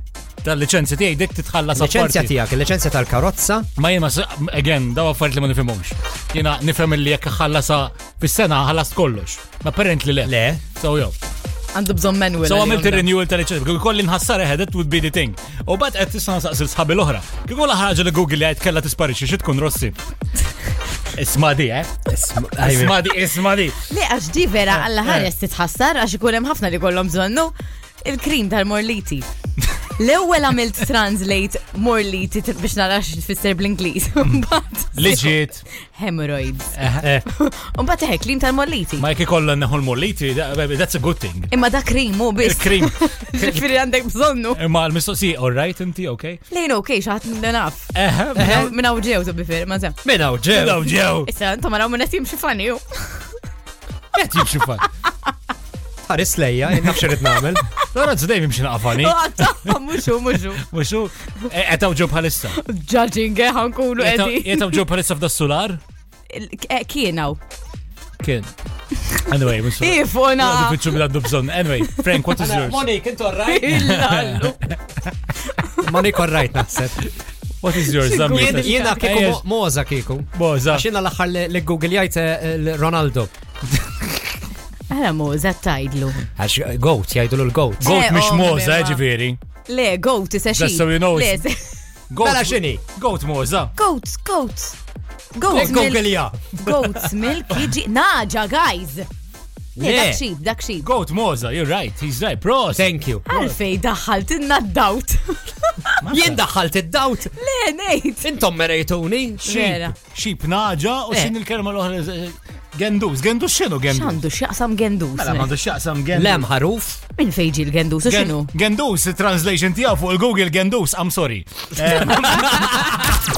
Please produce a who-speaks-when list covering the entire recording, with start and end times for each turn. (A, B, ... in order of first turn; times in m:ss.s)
0:00.4-0:02.3 A
0:01.7-0:03.7 B
0:03.8-0:11.2 A
0:10.2-0:10.6 B
0:11.8-0:13.1 C
0:12.4-0:20.0 A
0:21.1-0:22.1 A
0:22.1-0:23.0 B
0:22.6-0:23.8 A
0:23.9-0:27.5 C
0:28.0-0:29.3 C
0:30.0-0:35.4 C
0:34.9-0:35.6 A
0:35.9-0:36.8 C
0:36.7-0:37.0 A
0:37.3-0:39.0 C
0:39.0-0:41.5 A
0:41.5-0:44.6 C
0:42.4-0:43.6 A
0:44.6-0:46.4 A
0:46.5-0:50.0 C
0:47.9-0:48.7 A
0:48.4-0:48.7 B
0:50.0-0:51.0 B
0:50.5-0:51.3 A
0:51.2-0:53.4 C
0:54.2-0:54.9 A
0:56.0-0:57.6 B
0:57.8-0:59.7 A
0:58.9-1:00.6 C
1:00.5-1:02.6 A
1:02.5-1:04.8 C
1:04.0-1:05.8 A
1:06.3-1:07.4 C
1:08.2-1:08.5 A
1:09.1-1:11.0 C
1:09.2-1:12.9 A
1:11.8-1:12.2 C
1:12.4-1:13.9 B
1:13.4-1:14.6 C
1:13.7-1:14.8 A
1:15.5-1:15.9 C
1:15.8-1:17.0 B
1:17.6-1:19.4 A
1:18.0-1:19.0 C
1:18.2-1:23.3 B
1:20.3-1:20.8 A
1:24.9-1:26.2 C
1:26.4-1:27.9 B
1:27.8-1:29.0 C
1:27.8-1:29.4 A
1:29.7-1:31.6 C
1:30.5-1:31.4 A
1:32.1-1:33.7 A
1:32.2-1:32.8 B
1:33.8-1:34.8 C
1:35.4-1:39.1 C
1:35.5-1:37.1 B
1:39.8-1:40.2 B
1:39.8-1:40.8 C
1:40.8-1:43.6 A
1:42.7-1:43.2 B
1:43.3-1:45.9 C
1:46.0-1:46.4 A
1:46.1-1:47.3 B
1:47.3-1:48.3 C
1:48.2-1:49.5 B
1:49.4-1:49.9 C
1:49.4-1:54.2 A
1:53.9-1:55.5 C
1:55.2-1:56.4 A
1:56.1-1:57.0 B
1:57.2-1:58.5 C
1:58.0-2:03.1 A